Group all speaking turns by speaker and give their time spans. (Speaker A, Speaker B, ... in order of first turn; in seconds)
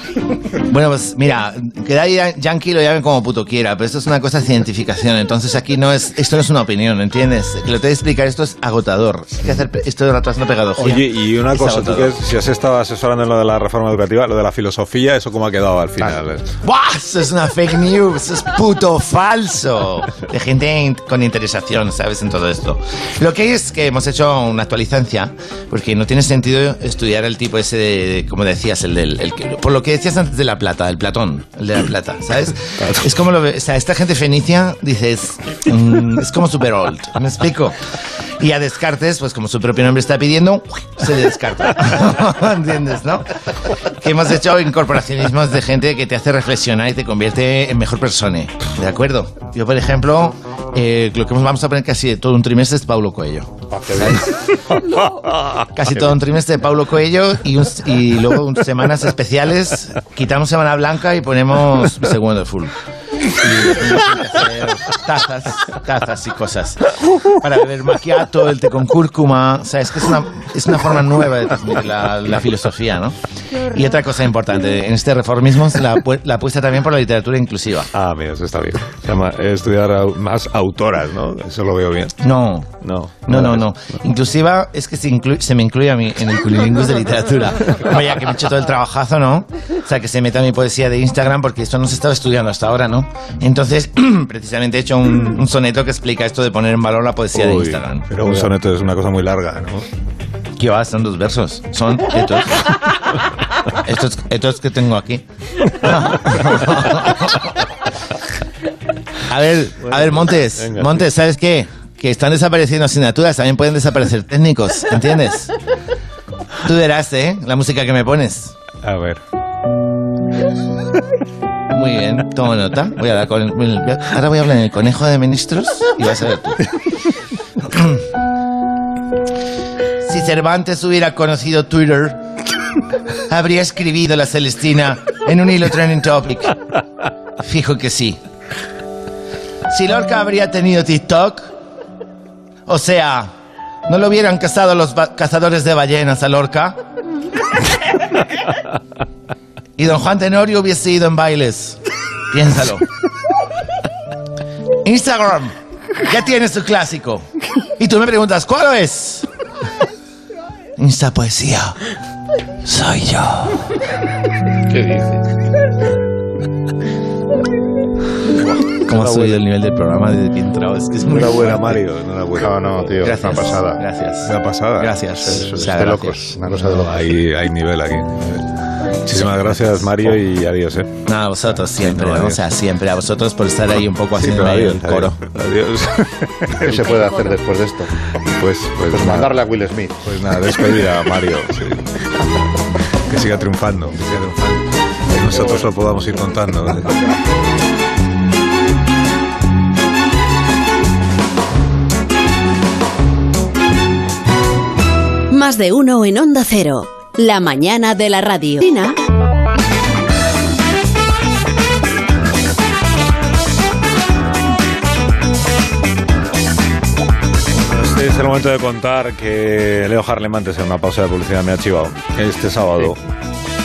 Speaker A: 0.7-12.2, 16.6-37.8, 38.4-43.3, 44.0-54.4, 55.7-62.7, 63.3-77.9, 82.2-98.1, 100.6-102.7, 103.8-107.6, 109.3-115.5, 116.6-118.6, 121.7-126.6, 127.6-128.1, 130.0-132.2, 133.3-136.6, 137.4-138.2, 139.7-141.5, 142.7-143.3, 143.9-146.8, 149.8-152.9, 154.8-157.3, 157.8-159.3, 160.8-161.8, 162.6-163.7, 168.8-171.8, 173.0-176.4, 181.1-185.2
Speaker B: 10.8-16.4, 77.9-82.2, 82.8-83.7, 97.4-99.8, 109.9-110.9, 118.8-119.2, 169.0-169.4, 171.1-172.9, 174.2-174.9, 176.5-178.5, 179.1-180.9, 181.9-182.4, 184.2-186.8, 188.2-189.3, 190.0-191.9, 193.1-197.0, 217.5-223.0
Speaker C: 53.7-54.2, 164.7-165.2, 172.4-173.8, 175.3-177.1, 186.6-187.9, 188.9-190.0
Speaker D: 205.3-209.0